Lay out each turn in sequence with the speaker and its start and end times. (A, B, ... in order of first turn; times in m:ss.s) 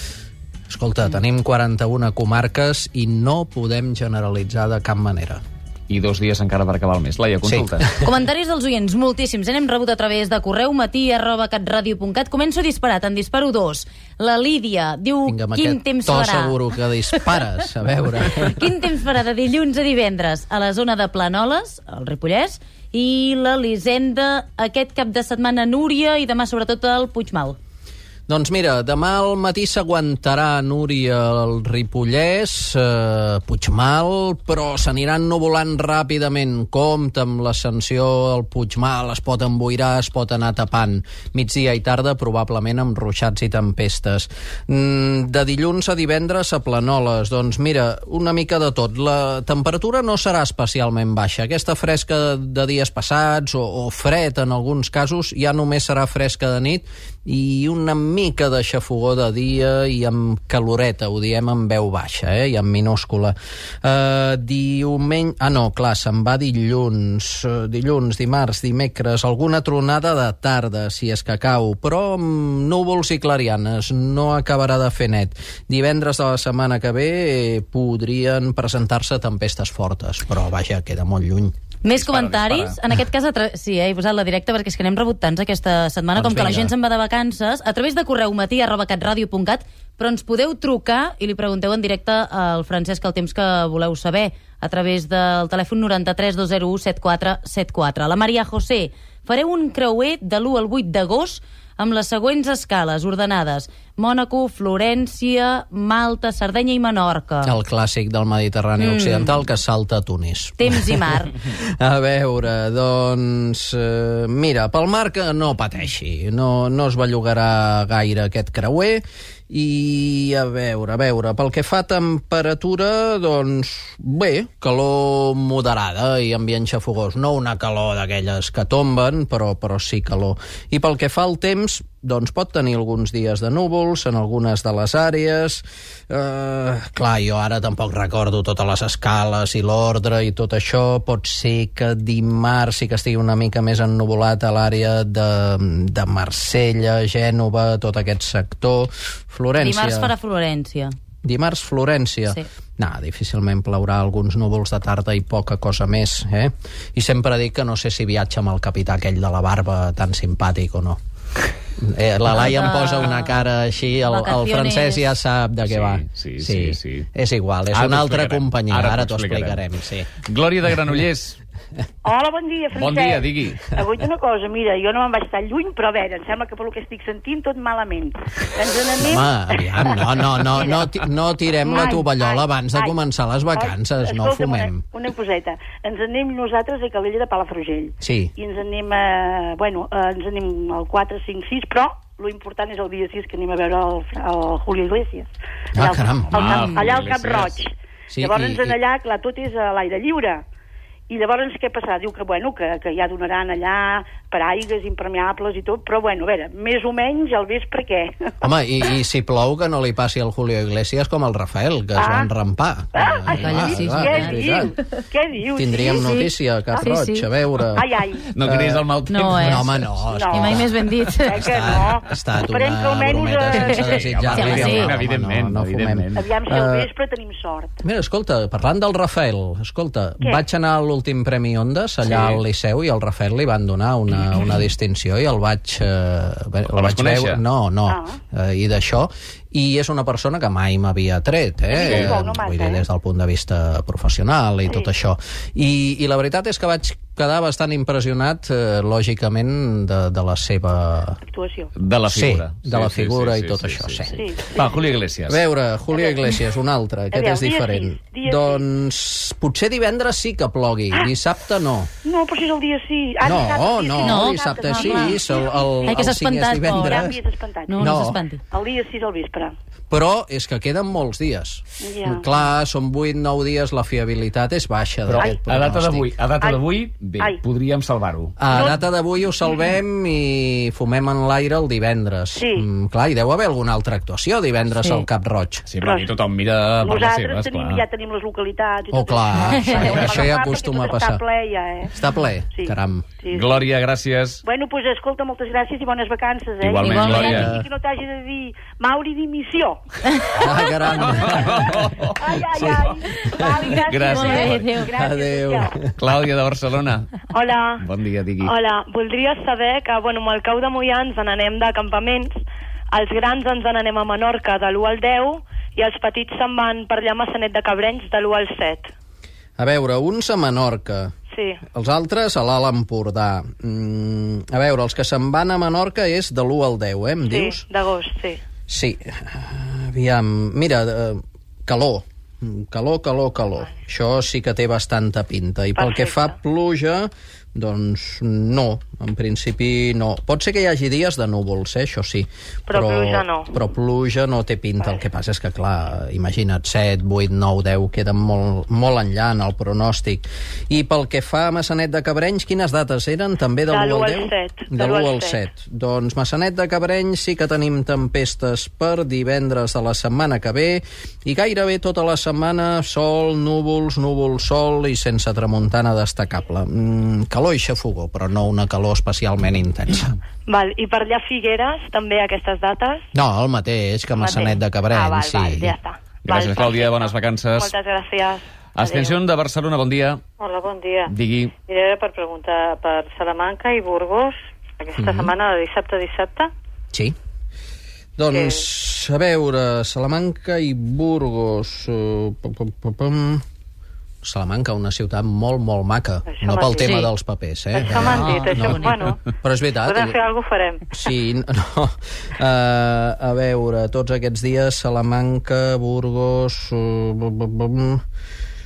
0:00.7-0:05.4 A
0:05.9-0:08.0 B
0:07.4-0:08.1 A
0:08.0-0:16.6 C
0:15.3-0:18.7 A
0:18.5-0:27.6 C
0:28.3-1:21.5 A
1:21.8-1:47.5 C
1:21.9-1:22.8 B
1:26.2-1:26.7 A
1:47.4-2:30.2 A
1:48.8-1:49.4 C
1:50.6-1:51.4 C
2:29.6-2:31.0 C
2:31.2-2:41.0 A
2:41.8-2:50.1 A
2:42.4-2:43.4 C
2:44.1-2:45.1 C
2:45.7-2:47.1 B
2:47.7-2:49.6 B
2:50.2-2:51.4 B
2:52.0-3:01.0 D
2:52.7-2:53.7 B
2:59.0-3:04.8 A
3:01.6-3:03.0 D
3:03.5-3:20.4 D
3:08.0-3:08.3 A
3:15.8-3:16.4 A
3:16.3-3:17.6 B
3:18.1-3:18.8 A
3:21.1-3:28.4 D
3:28.4-3:34.7 A
3:32.0-3:32.3 D
3:32.9-3:36.1 D
3:33.4-3:34.4 C
3:35.6-3:37.9 A
3:36.1-3:37.3 C
3:37.8-3:38.3 D
3:38.3-3:39.8 B
3:38.4-3:40.7 A
3:39.1-3:39.6 C
3:40.0-3:40.6 D
3:40.4-3:41.4 C
3:41.3-3:44.5 D
3:41.3-3:46.9 A
3:43.6-3:46.3 B
3:44.4-3:44.9 C
3:46.1-3:47.8 D
3:47.8-4:11.2 A
3:52.0-3:52.4 B
3:56.7-3:57.4 B
3:57.9-3:58.2 D
4:01.7-4:02.9 D
4:01.8-4:02.2 B
4:11.3-4:11.7 D
4:11.8-4:14.0 B
4:12.1-4:14.2 A
4:14.1-4:14.8 D
4:14.5-4:15.4 B
4:15.3-4:21.9 A
4:15.9-4:16.2 D
4:17.1-4:18.6 D
4:22.0-4:26.0 D
4:23.2-4:27.2 A
4:24.0-4:25.2 C
4:25.9-4:26.9 C
4:26.6-4:29.6 D
4:27.7-4:28.4 C
4:27.8-4:28.2 A
4:29.9-4:36.1 A
4:31.8-4:32.3 D
4:35.1-4:38.4 B
4:36.4-4:37.4 D
4:38.4-4:45.6 A
4:38.5-4:38.8 D
4:42.4-4:42.7 D
4:45.6-4:47.8 B
4:45.8-4:46.2 D
4:46.8-4:52.0 D
4:48.9-4:51.2 A
4:49.8-4:50.2 B
4:51.9-4:53.1 A
4:52.5-4:53.7 D
4:53.3-4:54.4 B
4:54.4-4:59.8 D
4:56.6-4:57.6 B
4:56.8-4:57.4 C
4:57.2-4:57.6 A
5:00.4-5:01.9 A
5:01.0-5:02.8 B
5:02.2-5:05.8 D
5:03.4-5:03.9 A
5:03.7-5:04.7 B
5:04.1-5:04.9 C
5:04.9-5:05.9 A
5:06.0-5:07.1 B
5:07.3-5:07.8 D
5:07.8-5:08.5 B
5:08.5-5:10.6 D
5:08.5-5:12.3 E
5:12.0-5:12.3 D
5:12.9-5:13.6 D
5:13.0-5:14.4 E
5:14.1-5:18.9 D
5:16.0-5:17.6 E
5:19.6-5:21.1 A
5:21.3-5:21.6 E
5:21.7-5:27.7 A
5:27.3-5:28.4 E
5:28.7-6:10.2 A
5:36.0-5:36.3 E
5:42.7-5:43.4 F
5:53.7-5:55.4 D
6:10.5-6:13.0 E
6:13.1-6:15.8 A
6:14.2-6:16.0 D
6:16.2-6:17.7 B
6:16.3-6:17.1 E
6:16.4-6:16.6 F
6:17.7-6:18.4 E
6:18.8-6:20.2 B
6:18.8-6:19.2 F
6:20.4-6:21.1 F
6:21.1-6:21.5 B
6:21.7-6:26.5 F
6:25.0-6:25.3 A
6:28.2-6:33.4 A
6:28.3-6:28.6 F
6:34.2-6:40.2 A
6:36.3-6:37.1 F
6:37.7-6:39.2 F
6:38.1-6:38.9 C
6:39.8-6:40.8 F
6:40.9-6:48.0 A